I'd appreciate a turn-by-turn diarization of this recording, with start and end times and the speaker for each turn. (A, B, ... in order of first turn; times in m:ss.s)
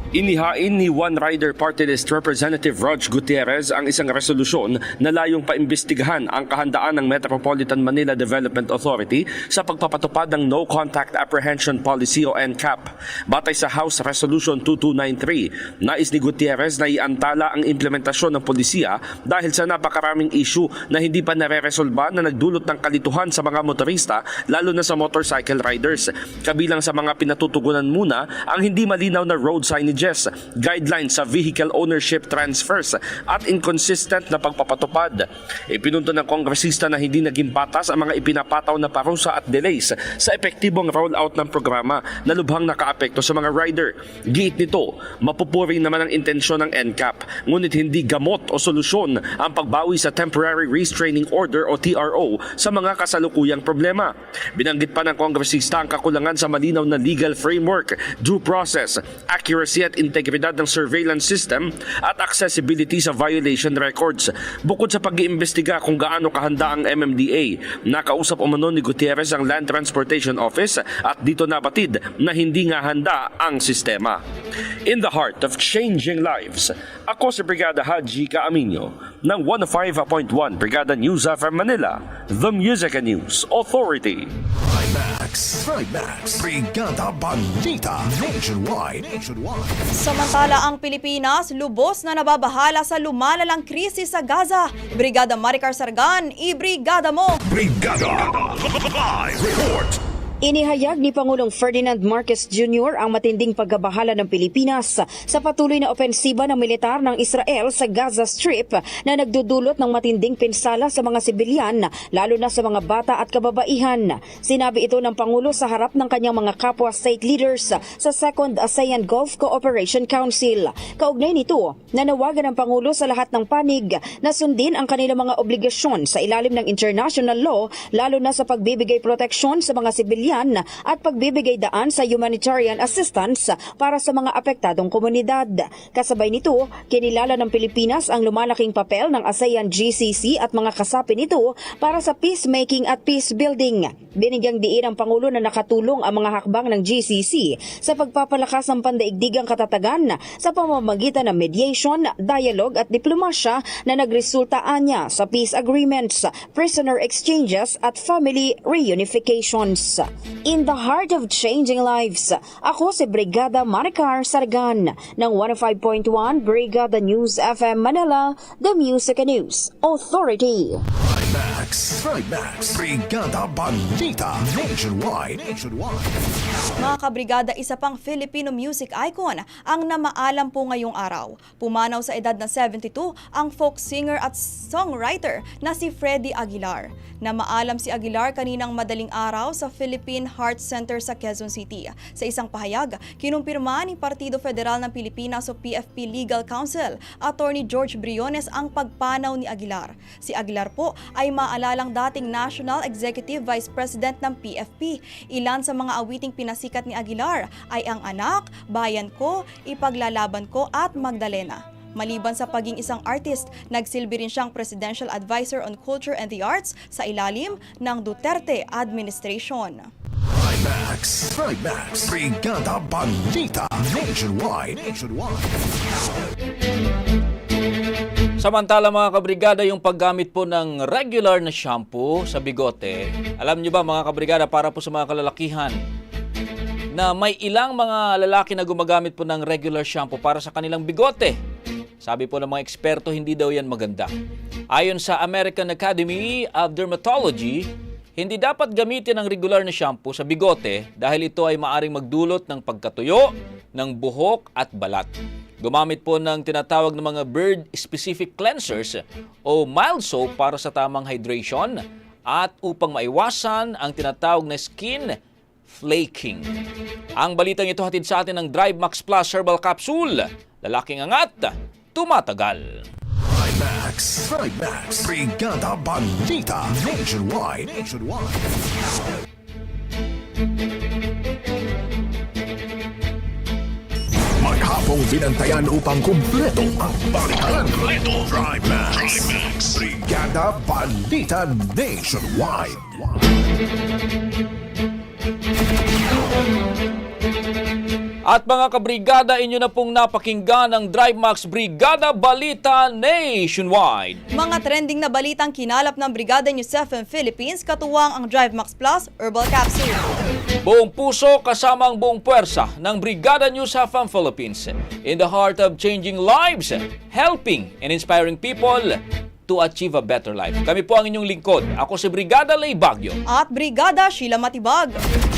0:00.1-1:14.2 A
1:14.9-1:24.3 A
1:24.6-1:29.8 B
1:30.0-1:37.4 C
1:37.4-1:40.0 B
1:40.4-2:50.8 D
2:50.9-2:56.9 B
2:56.8-3:39.8 C
3:40.2-3:46.1 B
3:48.4-3:55.8 E
3:56.9-4:01.4 E
4:02.0-4:04.1 E
4:04.7-4:07.7 E
4:08.2-4:15.1 E
4:15.6-4:25.1 E
4:25.7-4:26.4 E
4:27.2-4:32.8 E
4:33.2-4:38.9 B
4:44.4-4:53.2 B
4:58.3-5:04.2 E
5:04.3-5:10.0 C
5:10.6-5:23.2 E
5:23.3-5:25.0 C